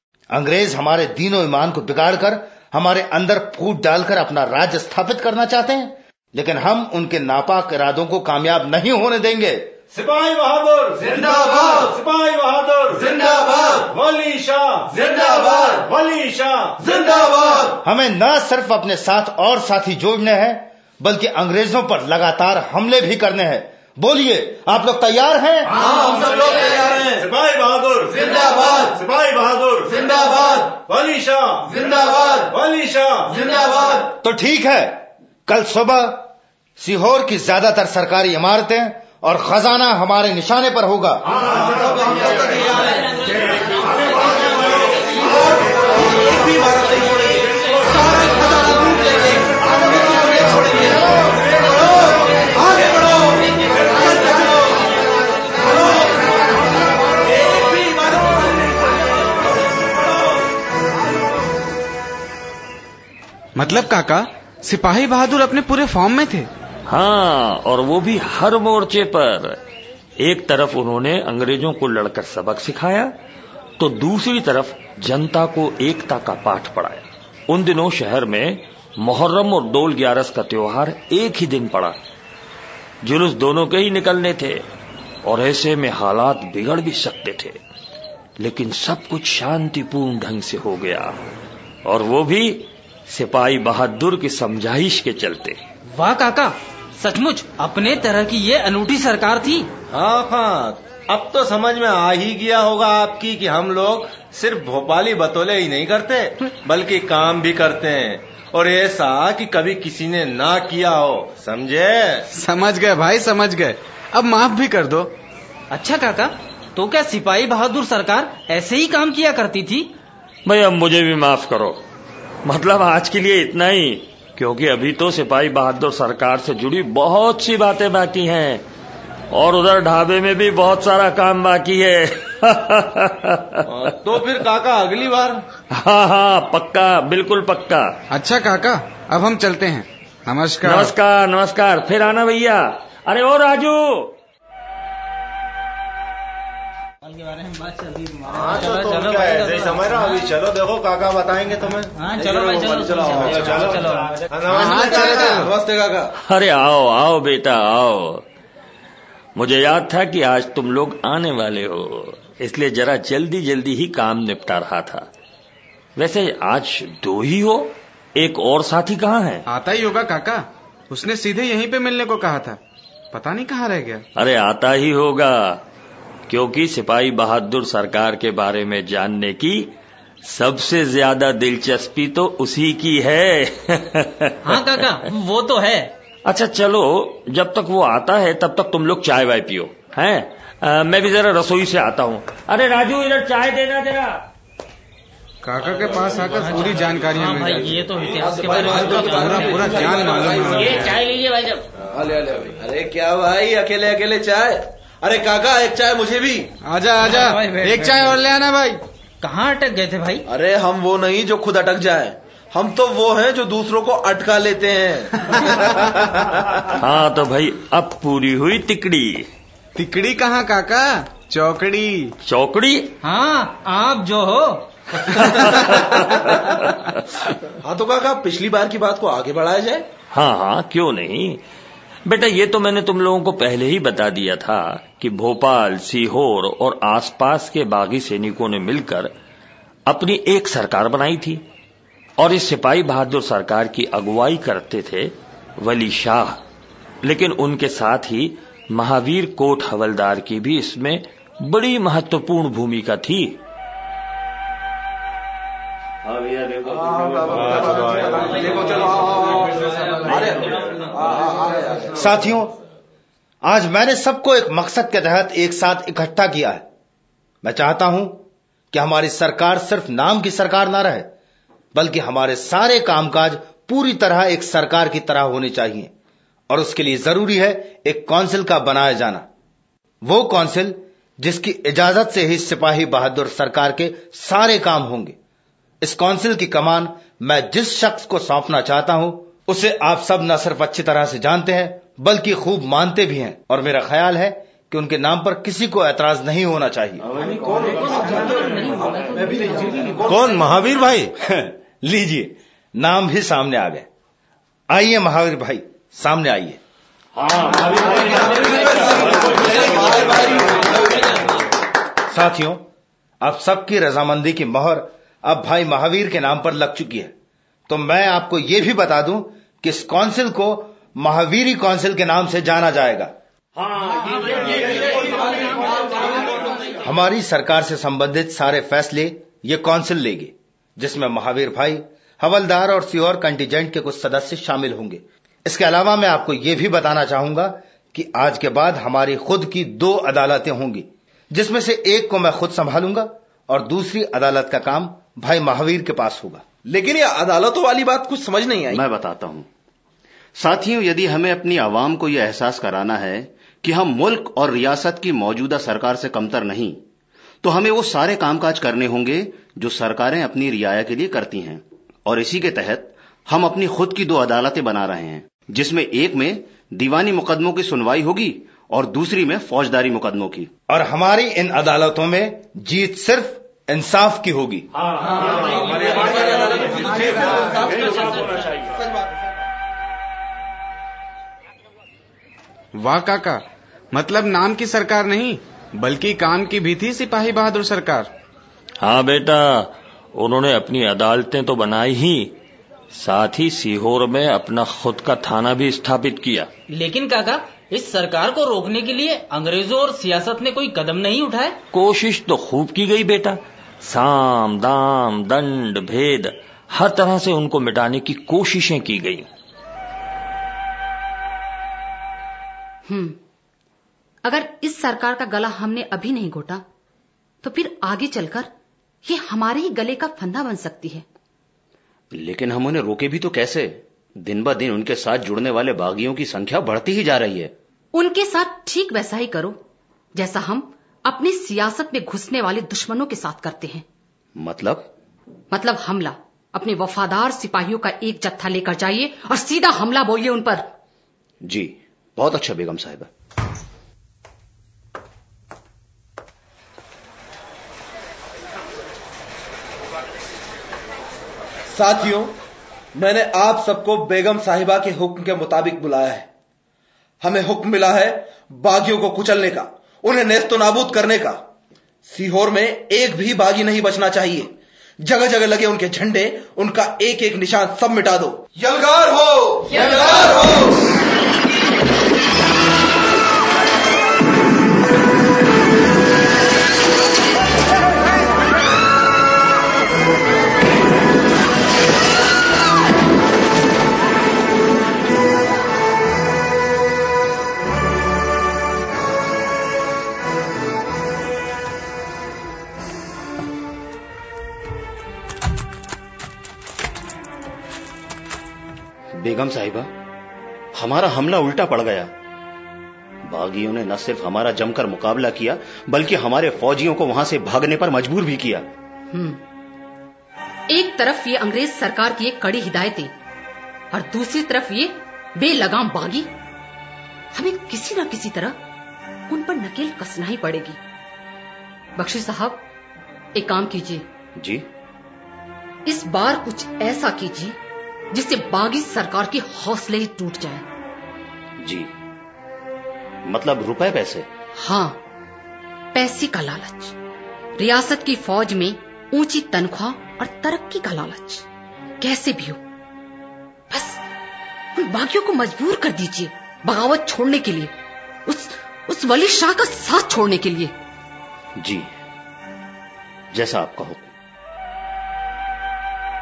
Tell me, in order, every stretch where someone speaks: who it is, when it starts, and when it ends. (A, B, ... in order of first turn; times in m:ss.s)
0:00.3-0:09.7 A
0:09.9-0:13.2 B
0:11.0-0:11.9 C
0:12.9-0:13.9 C
0:13.8-0:16.8 B
0:14.9-0:15.9 C
0:16.8-0:17.8 C
0:17.8-0:25.7 A
0:25.7-0:27.3 C
0:25.9-0:30.0 B
0:28.1-0:29.0 C
0:29.9-0:30.8 C
0:30.8-0:31.8 B
0:31.7-0:32.5 C
0:32.5-0:33.4 B
0:33.3-0:34.1 C
0:34.2-0:41.4 A
0:41.4-0:54.8 C
0:55.7-0:56.0 C
0:57.4-0:58.7 C
1:03.6-1:06.5 D
1:06.9-1:09.6 E
1:10.2-1:13.1 E
1:13.8-1:22.0 E
1:23.0-1:24.6 E
1:25.2-1:27.6 E
1:28.4-1:31.2 E
1:31.8-1:35.6 E
1:35.9-1:39.7 F
1:39.9-1:52.3 B
1:52.3-1:55.2 D
1:55.7-1:59.9 F
2:00.4-2:01.8 E
2:02.4-2:08.6 E
2:09.3-2:13.6 E
2:13.7-2:15.4 B
2:15.7-2:17.9 E
2:18.1-2:20.9 D
2:20.6-2:24.1 E
2:27.0-2:30.3 F
2:28.2-2:31.9 B
2:31.9-2:35.3 F
2:32.2-2:33.8 C
2:33.3-2:35.4 B
2:34.5-2:35.5 D
2:34.6-2:36.1 C
2:36.2-2:38.2 E
2:39.4-2:45.1 E
2:46.0-2:49.4 E
2:49.5-2:52.6 D
2:53.1-2:54.0 D
2:54.2-2:55.6 E
2:56.3-2:59.7 E
3:00.2-3:04.7 E
3:04.4-3:05.9 F
3:06.3-3:14.2 E
3:15.4-3:17.8 D
3:15.8-3:21.6 F
3:18.0-3:21.0 C
3:19.0-3:21.0 D
3:21.8-3:26.5 C
3:26.6-3:28.8 D
3:27.0-3:28.2 F
3:29.2-3:30.2 F
3:30.2-3:36.1 C
3:36.6-3:39.3 E
3:39.7-3:42.1 D
3:42.2-3:42.9 E
3:43.0-3:45.5 F
3:45.0-3:46.9 E
3:47.6-3:49.9 C
3:50.1-3:51.4 E
3:52.0-3:59.1 E
3:59.9-4:01.4 E
4:02.2-4:06.4 E
4:07.0-4:13.4 E
4:16.0-4:18.8 G
4:16.7-4:22.1 C
4:17.3-4:18.2 B
4:22.0-4:22.5 A
4:23.4-4:26.6 A
4:27.4-4:31.1 A
4:31.7-4:35.9 A
4:36.5-4:39.2 A
4:40.0-4:45.2 A
4:45.8-4:57.0 A
4:57.2-5:00.4 C
4:57.8-4:59.3 F
5:00.0-5:01.1 B
5:01.2-5:03.8 A
5:04.7-5:06.6 A
5:07.4-5:11.4 C
5:12.1-5:12.6 A
5:13.2-5:17.1 A
5:17.7-5:23.1 A
5:26.8-5:46.4 A
5:46.6-5:48.8 C
5:48.7-5:49.5 G
5:50.4-5:56.8 G
5:57.4-6:10.5 G
6:10.7-6:14.7 A
6:15.1-6:19.3 C
6:15.2-6:15.8 F
6:22.8-6:28.1 D
6:28.8-6:32.3 E
6:32.9-6:36.5 E
6:36.7-6:41.6 F
6:41.7-6:49.3 E
6:52.9-6:53.2 H
6:54.2-6:56.6 H
6:57.4-6:58.5 H
6:59.0-7:01.0 H
7:02.1-7:07.5 G
7:07.9-7:09.6 H
7:10.1-7:13.8 H
7:14.4-7:14.9 G
7:15.5-7:20.7 H
7:21.4-7:23.1 G
7:31.7-7:32.4 C
7:32.9-7:36.3 C
7:37.2-7:41.4 C
7:42.0-7:50.8 C
8:19.1-8:19.9 G
8:20.7-8:22.1 G
8:23.2-8:28.7 G
8:29.1-8:29.4 H
8:30.7-8:33.1 H
8:33.9-8:36.3 H
8:37.3-8:38.6 H
8:39.3-8:40.8 H
8:42.0-8:42.6 H
8:43.3-8:44.0 H
8:44.4-8:44.6 G
8:45.8-8:47.6 H
8:48.1-8:50.7 H
8:51.6-8:51.9 G
8:53.2-8:54.3 G
8:54.6-8:55.0 H
8:55.9-8:56.9 H
8:57.6-9:01.4 H
9:02.0-9:02.6 H
9:03.7-9:04.0 H
9:04.7-9:07.7 H
9:08.2-9:10.7 H
9:11.6-9:11.9 G
9:13.3-9:14.1 G